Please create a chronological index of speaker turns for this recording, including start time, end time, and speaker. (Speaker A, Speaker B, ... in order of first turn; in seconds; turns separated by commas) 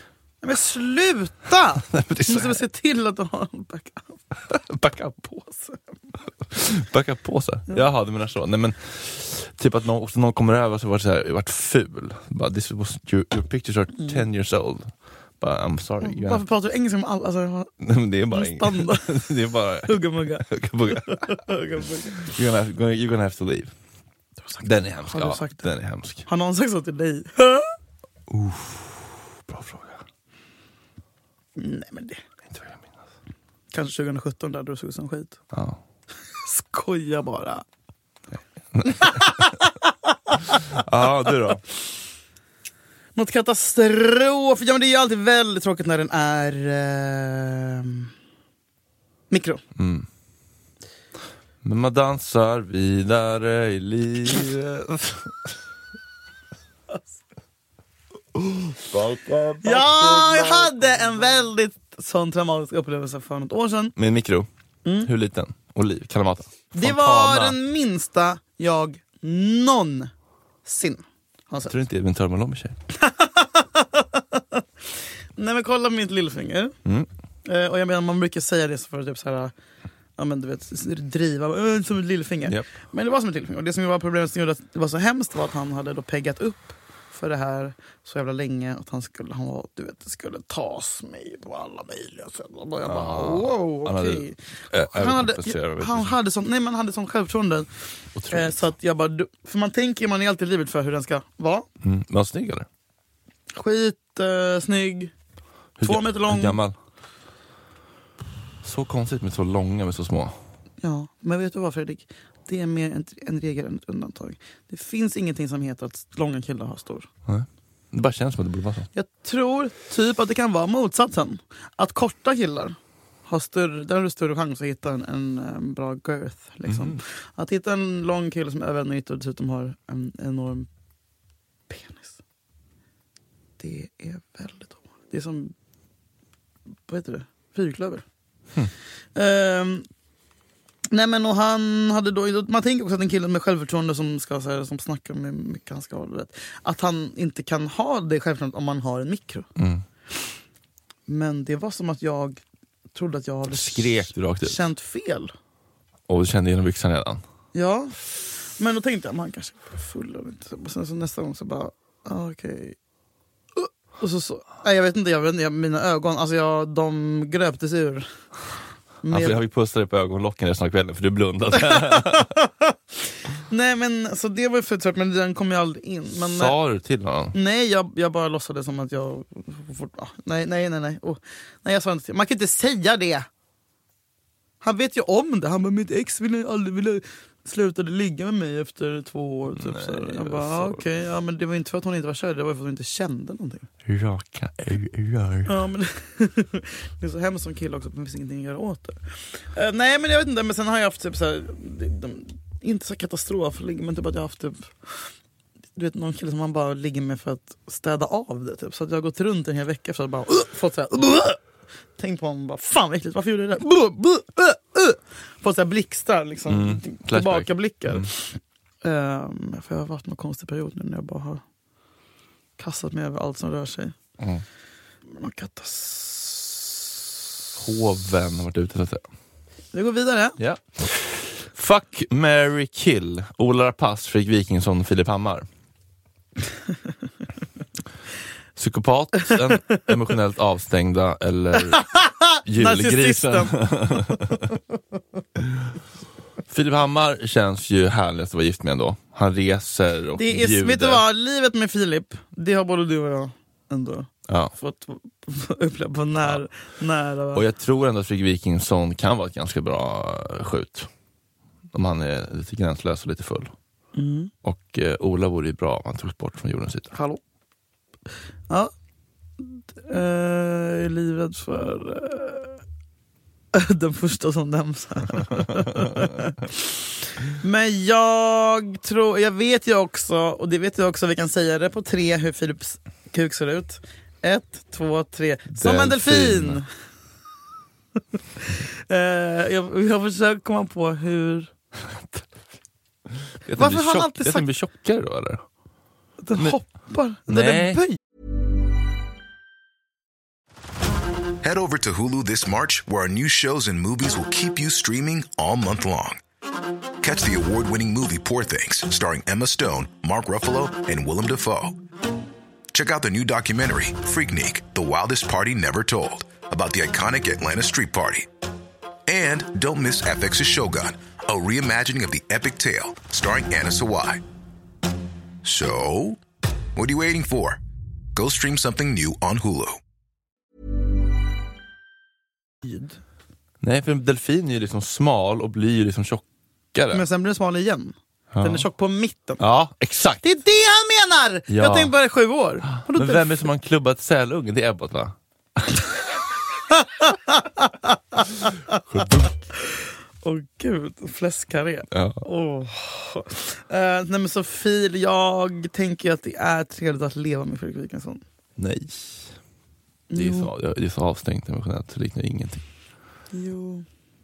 Speaker A: 0.4-5.9, Speaker B: 1.8-2.6, Speaker B: 6.5-16.4, Speaker A: 14.0-14.2, Speaker A: 16.0-17.7, Speaker B: 17.8-21.3, Speaker A: 18.3-19.2, Speaker A: 19.9-22.3, Speaker B: 22.2-23.7, Speaker A: 24.4-25.7, Speaker B: 24.6-26.2, Speaker A: 26.3-27.7, Speaker B: 28.3-30.0, Speaker A: 31.6-32.2, Speaker B: 32.5-33.0, Speaker A: 33.7-35.4, Speaker B: 35.5-35.8, Speaker A: 36.4-37.6, Speaker B: 38.7-39.5, Speaker A: 38.9-40.6, Speaker B: 40.5-41.6, Speaker A: 43.2-48.1, Speaker A: 49.3-49.6, Speaker B: 49.8-50.1, Speaker B: 51.6-55.4, Speaker B: 58.4-61.5, Speaker A: 59.6-63.9, Speaker B: 64.0-64.5, Speaker A: 64.8-65.1, Speaker B: 65.0-67.6, Speaker A: 66.7-70.1, Speaker A: 70.7-71.7, Speaker B: 71.7-72.8, Speaker A: 72.9-74.6, Speaker A: 75.4-76.8, Speaker A: 77.5-79.5, Speaker A: 80.2-97.7, Speaker B: 92.8-96.2, Speaker B: 98.2-98.7, Speaker A: 98.3-101.7, Speaker B: 101.8-102.7, Speaker A: 103.5-105.1, Speaker B: 105.8-106.8, Speaker A: 105.8-106.6, Speaker B: 108.6-110.3, Speaker A: 110.8-117.1, Speaker B: 117.3-118.9, Speaker A: 119.0-122.8, Speaker A: 123.3-130.7, Speaker B: 126.7-127.0, Speaker A: 131.7-132.2, Speaker A: 133.6-135.5, Speaker A: 136.9-138.1, Speaker A: 139.2-139.9, Speaker A: 140.9-149.5, Speaker B: 149.6-149.8, Speaker A: 151.1-152.4, Speaker A: 152.9-155.3, Speaker B: 153.5-154.6, Speaker B: 156.1-157.2, Speaker A: 157.5-158.1, Speaker A: 158.6-162.8, Speaker A: 163.6-168.1, Speaker A: 169.0-169.4, Speaker B: 169.1-172.3, Speaker A: 171.7-172.8, Speaker A: 173.5-176.6, Speaker B: 176.2-177.3, Speaker A: 177.3-183.3, Speaker A: 184.6-193.7, Speaker B: 189.6-190.8, Speaker B: 193.8-195.6, Speaker A: 195.5-205.1, Speaker A: 205.8-211.4, Speaker A: 212.0-221.4, Speaker B: 216.5-218.1, Speaker A: 222.6-223.9, Speaker B: 224.2-224.4, Speaker A: 225.1-227.0, Speaker B: 227.6-229.1, Speaker A: 229.7-230.4, Speaker B: 230.4-235.5, Speaker B: 238.6-241.9, Speaker A: 241.7-244.3, Speaker B: 242.4-244.5, Speaker B: 245.4-245.7, Speaker B: 246.5-251.0, Speaker A: 250.2-257.4, Speaker B: 254.3-254.5, Speaker B: 257.3-260.9, Speaker B: 261.7-263.5, Speaker A: 263.9-264.3, Speaker B: 264.4-266.9, Speaker A: 266.9-267.2, Speaker A: 269.4-272.6, Speaker A: 273.5-286.7, Speaker B: 285.5-286.6, Speaker A: 288.4-291.5, Speaker B: 293.4-295.4, Speaker A: 293.6-294.5, Speaker A: 296.2-298.0, Speaker B: 297.3-297.8, Speaker C: 301.4-306.2, Speaker C: 307.0-311.8, Speaker C: 312.7-318.3, Speaker C: 319.1-324.2, Speaker C: 325.4-326.2, Speaker C: 326.8-327.6, Speaker C: 328.1-329.8, Speaker A: 332.6-333.0, Speaker B: 333.6-337.1, Speaker A: 336.9-339.4, Speaker B: 338.3-338.7, Speaker B: 339.4-340.2, Speaker A: 340.2-343.4, Speaker B: 341.5-341.9, Speaker B: 342.7-345.7, Speaker A: 346.7-348.8, Speaker B: 348.9-349.3, Speaker A: 349.5-358.2, Speaker B: 351.9-352.2, Speaker B: 358.6-359.4, Speaker A: 360.1-360.5, Speaker B: 360.1-362.6, Speaker A: 363.3-363.9